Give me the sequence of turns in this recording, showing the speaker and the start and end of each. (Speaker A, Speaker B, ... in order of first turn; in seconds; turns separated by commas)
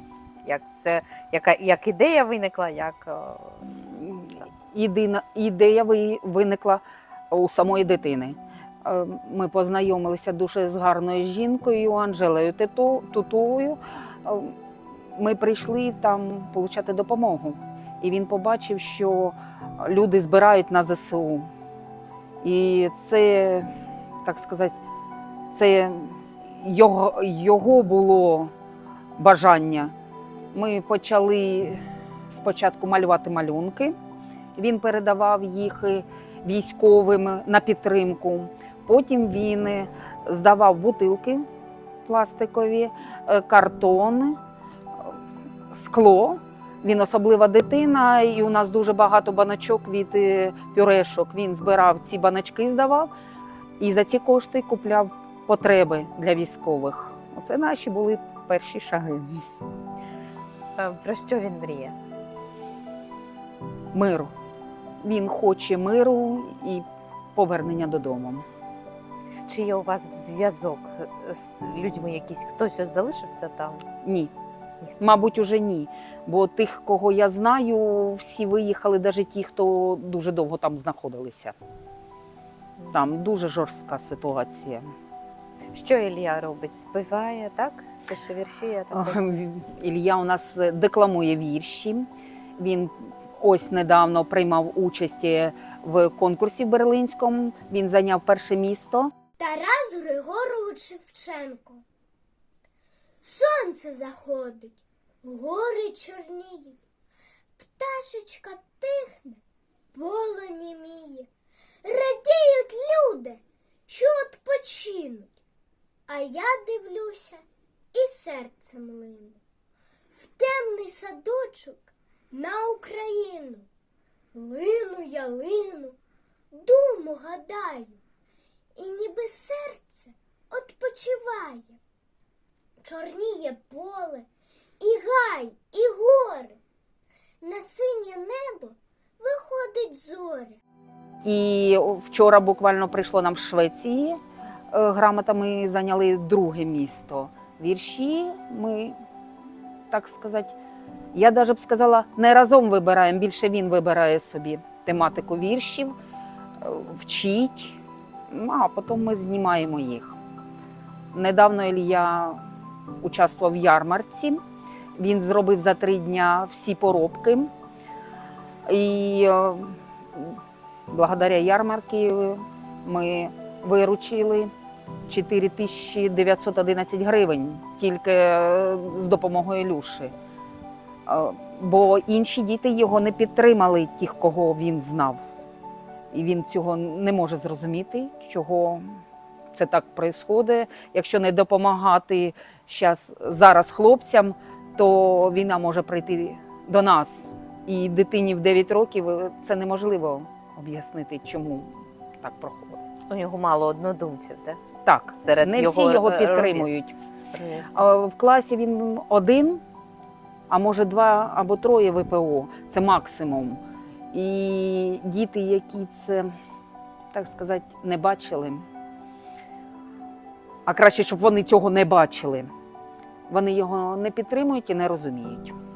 Speaker A: 0.4-4.5, Speaker B: 3.9-14.5, Speaker B: 15.2-21.5, Speaker B: 22.4-23.7, Speaker B: 24.2-24.8, Speaker B: 25.5-28.5, Speaker B: 29.2-29.9, Speaker B: 30.5-34.0, Speaker B: 34.6-41.5, Speaker B: 42.1-44.4, Speaker B: 45.7-53.1, Speaker B: 53.8-59.4, Speaker A: 60.8-62.0, Speaker B: 63.9-64.3, Speaker B: 65.0-68.5, Speaker A: 69.5-73.9, Speaker B: 74.0-74.3, Speaker A: 74.8-75.2, Speaker B: 75.0-81.6, Speaker B: 82.9-84.9, Speaker A: 85.7-89.4, Speaker B: 88.9-92.1, Speaker B: 92.6-99.1, Speaker C: 99.4-101.8, Speaker C: 103.2-106.8, Speaker C: 107.6-109.4, Speaker C: 109.9-111.3, Speaker C: 111.8-115.3, Speaker C: 116.1-119.4, Speaker C: 120.2-123.7, Speaker C: 124.3-126.0, Speaker C: 126.5-128.0, Speaker C: 128.8-131.8, Speaker C: 132.8-134.2, Speaker C: 134.8-136.6, Speaker C: 137.4-140.6, Speaker B: 141.2-144.2, Speaker B: 144.7-149.0, Speaker B: 149.9-150.5, Speaker B: 151.1-155.9, Speaker B: 156.6-157.8, Speaker B: 158.3-160.2, Speaker B: 161.1-162.4, Speaker B: 163.0-164.4, Speaker B: 165.0-167.5, Speaker B: 168.7-170.4, Speaker B: 170.9-174.5, Speaker B: 175.1-180.1, Speaker B: 181.1-185.2, Speaker B: 186.1-189.0, Speaker B: 189.5-202.8, Speaker A: 203.1-204.6, Speaker B: 204.8-206.9, Speaker A: 205.2-206.7, Speaker A: 207.3-207.7, Speaker B: 207.7-209.6, Speaker B: 210.5-213.6, Speaker B: 214.1-216.3, Speaker B: 217.1-218.6, Speaker B: 220.7-222.5, Speaker B: 223.3-225.6